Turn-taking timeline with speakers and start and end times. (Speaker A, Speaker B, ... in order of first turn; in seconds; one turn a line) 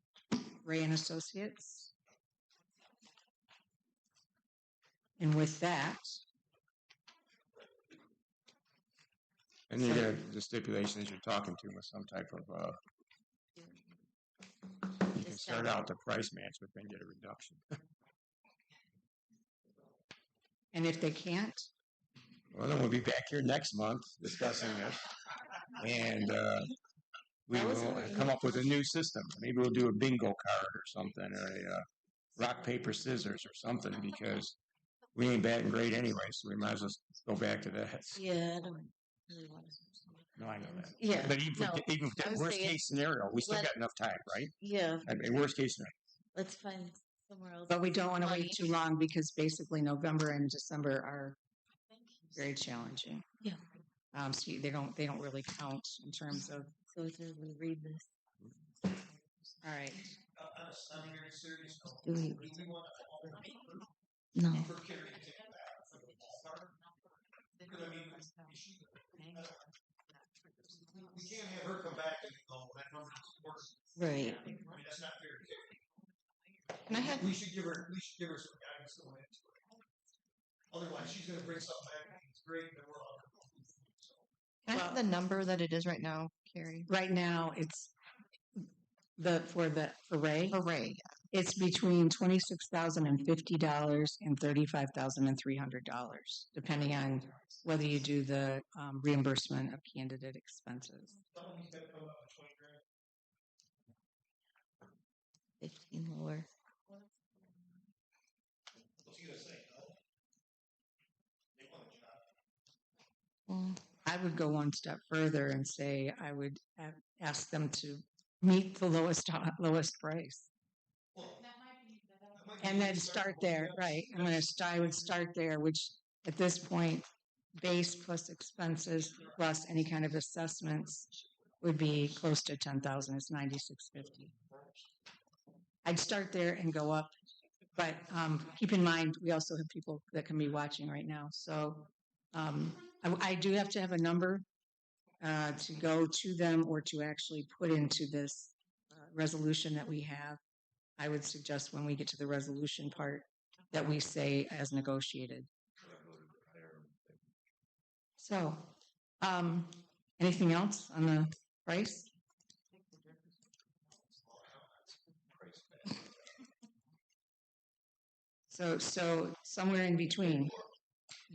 Speaker A: 0.5-1.9
Speaker A: 5.2-6.2
Speaker B: 9.7-12.8
Speaker A: 9.8-10.1
Speaker C: 13.6-13.8
Speaker C: 15.1-15.8
Speaker B: 15.1-17.6
Speaker A: 20.7-21.7
Speaker B: 22.5-25.1
Speaker B: 25.8-26.7
Speaker B: 27.5-34.6
Speaker C: 27.5-28.7
Speaker B: 35.1-38.2
Speaker C: 38.1-40.2
Speaker B: 40.4-45.9
Speaker C: 40.8-42.8
Speaker C: 43.4-43.7
Speaker C: 44.6-45.2
Speaker C: 46.3-48.6
Speaker A: 47.7-51.4
Speaker A: 52.3-53.2
Speaker A: 54.1-56.7
Speaker C: 56.9-58.0
Speaker A: 59.6-60.1
Speaker D: 60.2-63.9
Speaker C: 62.0-62.6
Speaker C: 64.3-64.7
Speaker D: 64.5-66.8
Speaker D: 67.6-69.7
Speaker D: 71.0-75.8
Speaker C: 74.0-74.4
Speaker E: 76.9-77.3
Speaker D: 77.0-79.6
Speaker D: 80.7-84.2
Speaker E: 84.7-86.9
Speaker A: 86.9-87.9
Speaker A: 89.2-90.6
Speaker E: 90.5-91.1
Speaker A: 91.3-101.2
Speaker D: 101.3-102.8
Speaker C: 105.6-106.5
Speaker D: 109.0-110.0
Speaker D: 111.5-112.2
Speaker C: 113.5-113.8
Speaker A: 114.0-120.5
Speaker D: 121.1-121.5
Speaker D: 122.3-125.1
Speaker A: 122.6-131.1
Speaker A: 131.6-134.3
Speaker A: 135.8-137.1
Speaker A: 137.8-144.4
Speaker A: 145.2-150.4
Speaker A: 151.0-155.5
Speaker B: 155.8-157.2
Speaker A: 158.2-162.1
Speaker D: 164.2-166.1
Speaker A: 168.5-170.5